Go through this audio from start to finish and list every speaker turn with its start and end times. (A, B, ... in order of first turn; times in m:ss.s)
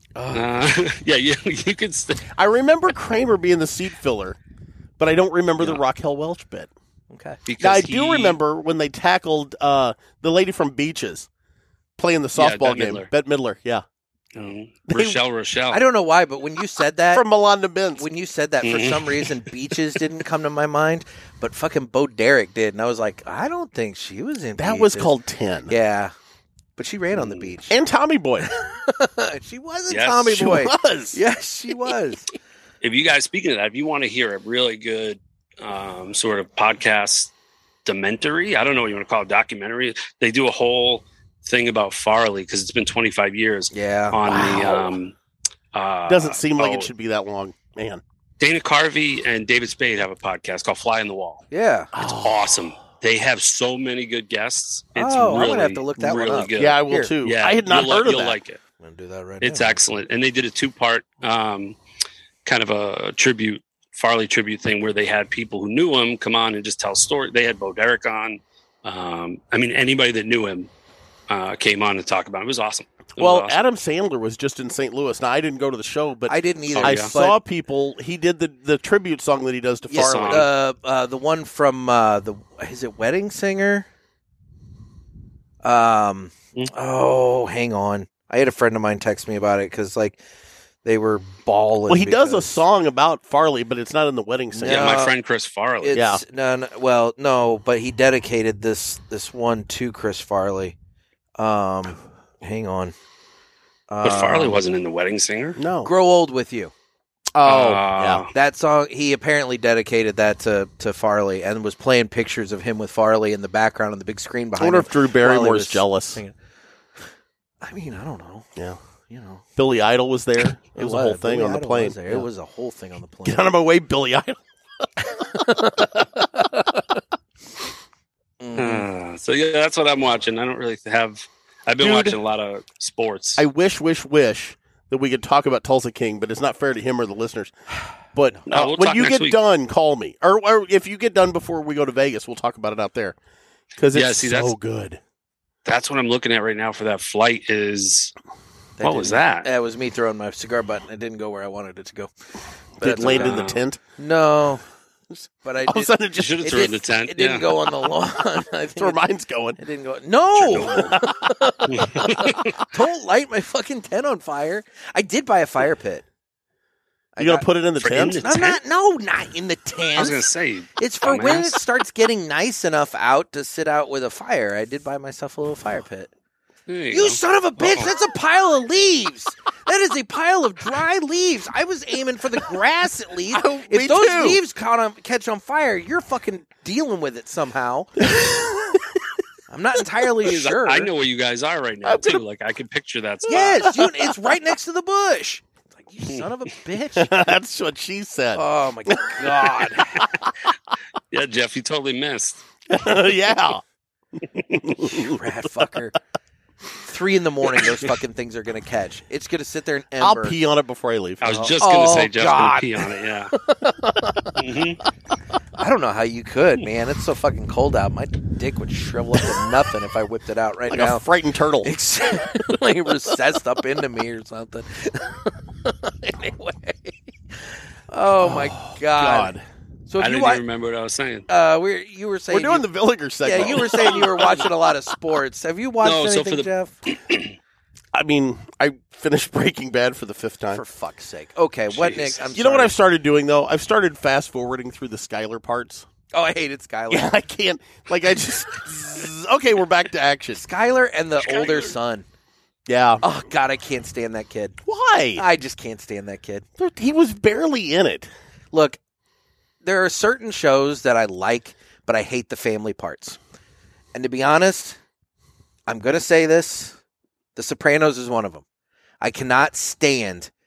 0:00.2-0:00.6 A
0:00.3-0:02.3 B
0:02.3-0:04.4 C
0:05.0-0:06.7 C
0:07.1-0:07.4 A
0:07.5-0:08.4 B
0:07.6-0:11.3 C
0:12.0-0:13.8 C
0:12.4-0:13.1 B
0:14.4-0:15.9 B
0:14.9-0:15.2 C
0:15.7-0:17.2 A
0:17.1-0:18.1 C
0:18.0-0:25.2 A
0:18.6-0:19.4 B
0:24.6-0:25.7 C
0:25.7-0:26.1 A
0:26.8-0:27.7 A
0:27.1-0:27.5 B
0:27.7-0:28.5 C
0:28.4-0:32.3 A
0:29.9-0:30.4 B
0:30.3-0:31.2 C
0:32.8-0:37.3 B
0:37.8-0:45.2 B
0:43.7-0:44.6 A
0:44.3-0:44.8 C
0:45.7-0:46.9 B
0:46.1-0:48.0 C
0:48.4-0:51.4 B
0:51.5-0:51.9 A
0:51.9-0:52.7 C
0:52.0-0:58.6 B
0:55.0-0:57.1 A
0:56.6-0:58.4 C
0:58.8-0:59.8 A
0:59.4-1:01.8 B
1:02.4-1:10.7 B
1:11.3-1:13.6 B
1:13.2-1:20.5 C
1:16.3-1:17.4 A
1:16.7-1:17.1 B
1:19.9-1:23.9 A
1:19.9-1:20.5 B
1:25.6-1:30.2 A
1:30.8-1:32.6 A
1:31.9-1:34.9 C
1:34.6-1:35.2 A
1:34.6-1:36.0 B
1:35.8-1:40.7 A
1:35.9-1:36.2 C
1:41.4-1:42.9 A
1:43.9-1:44.6 A
1:44.0-1:45.6 B
1:45.6-1:45.9 C
1:45.8-1:46.7 A
1:47.3-1:48.2 C
1:47.4-1:48.3 B
1:48.3-1:56.4 A
1:54.6-1:56.2 C
1:57.6-1:58.5 A
1:59.1-1:59.4 A
1:59.6-2:02.3 C
2:00.7-2:03.5 A
2:03.2-2:04.4 C
2:05.0-2:06.8 A
2:08.4-2:08.9 A
2:08.6-2:13.4 B
2:11.8-2:12.2 C
2:13.4-2:17.5 C
2:18.1-2:23.2 C
2:18.5-2:19.4 B
2:23.8-2:25.0 C
2:23.9-2:24.5 B
2:25.6-2:28.1 B
2:28.8-2:32.1 A
2:28.8-2:29.5 B
2:32.8-2:33.4 A
2:32.8-2:33.8 C
2:33.0-2:33.6 B
2:34.0-2:34.6 A
2:35.1-2:36.4 C
2:35.4-2:39.0 A
2:36.1-2:37.7 B
2:38.8-2:39.6 C
2:39.6-2:46.0 A
2:40.4-2:41.0 B
2:41.7-2:42.6 B
2:47.2-2:47.5 A
2:47.2-2:48.3 C
2:47.8-2:48.6 B
2:48.2-2:56.1 A
2:50.0-2:51.6 B
2:56.7-2:57.9 B
2:56.9-3:08.1 A
3:03.3-3:04.4 C
3:08.0-3:08.8 C
3:09.5-3:10.9 A
3:10.2-3:13.8 B
3:11.8-3:12.2 C
3:13.3-3:17.1 A
3:13.3-3:14.1 C
3:17.0-3:20.3 C
3:18.4-3:20.1 A
3:21.1-3:22.4 B
3:22.7-3:23.6 C
3:24.6-3:25.2 C
3:24.8-3:26.0 A
3:26.8-3:30.4 A
3:30.0-3:31.4 C
3:31.2-3:33.3 B
3:31.3-3:33.9 A
3:34.4-3:34.8 B
3:35.6-3:41.0 A
3:40.7-3:41.7 C
3:41.6-3:47.1 A
3:47.9-3:49.4 A
3:48.2-3:49.4 C
3:49.9-3:50.4 A
3:50.0-3:51.3 B
3:51.3-3:52.7 A
3:52.3-3:54.2 C
3:53.2-3:56.8 A
3:53.7-3:54.4 B
3:55.8-3:57.3 B
3:57.9-4:00.6 C
4:00.5-4:02.7 A
4:01.7-4:02.2 B
4:02.3-4:05.9 C
4:06.1-4:07.1 A
4:06.9-4:10.4 C
4:10.3-4:12.0 A
4:11.2-4:11.7 B
4:12.7-4:13.0 C
4:13.0-4:14.6 A
4:14.6-4:15.2 C
4:15.2-4:16.4 A
4:16.6-4:18.1 C
4:18.5-4:18.8 A
4:19.6-4:23.2 A
4:23.9-4:24.8 A
4:25.7-4:26.8 A
4:27.4-4:28.4 A
4:29.0-4:30.3 A